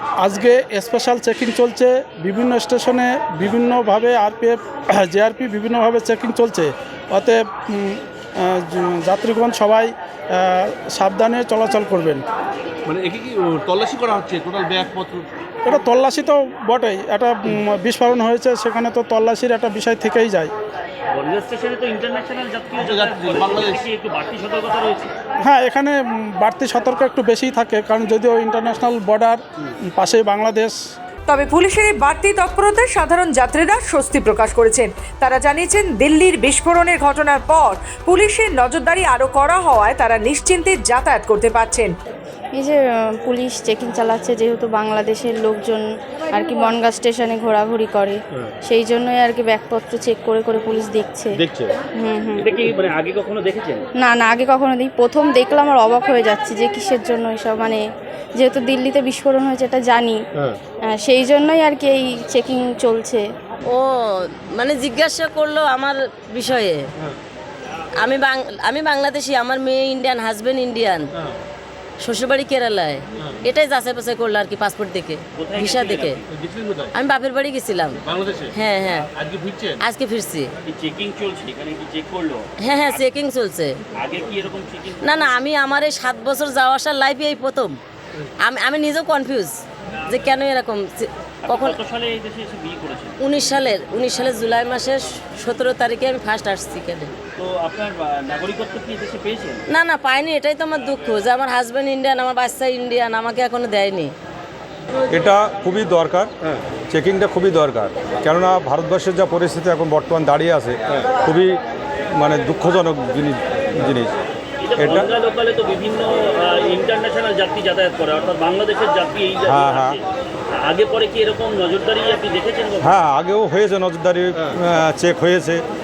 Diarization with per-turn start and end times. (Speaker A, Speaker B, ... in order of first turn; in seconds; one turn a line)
Speaker A: 0.2-12.2
Speaker B: 12.8-15.3
Speaker A: 15.6-20.5
Speaker C: 21.1-25.1
Speaker B: 22.8-23.8
Speaker A: 25.4-29.4
Speaker A: 29.9-30.8
Speaker D: 31.3-41.9
Speaker E: 42.6-51.4
Speaker B: 51.4-51.7
Speaker E: 52.0-52.4
Speaker C: 52.4-53.8
Speaker E: 54.0-57.8
Speaker E: 58.4-60.2
Speaker E: 60.9-63.2
Speaker F: 63.6-66.8
Speaker F: 68.0-71.1
Speaker F: 72.0-76.2
Speaker C: 75.3-76.2
Speaker B: 76.3-76.9
Speaker F: 76.9-78.0
Speaker B: 78.0-78.5
Speaker F: 78.5-79.1
Speaker B: 79.1-79.8
Speaker F: 79.8-80.5
Speaker C: 80.7-83.0
Speaker F: 82.6-83.8
Speaker C: 84.0-85.3
Speaker F: 85.0-87.8
Speaker F: 88.4-91.8
Speaker C: 91.5-93.2
Speaker F: 93.2-97.1
Speaker C: 97.4-99.6
Speaker F: 99.7-104.1
Speaker G: 105.1-106.3
Speaker G: 106.9-111.6
Speaker G: 112.1-114.2
Speaker C: 114.6-120.0
Speaker G: 114.8-115.1
Speaker G: 119.4-120.0
Speaker C: 120.6-122.9
Speaker G: 122.8-125.6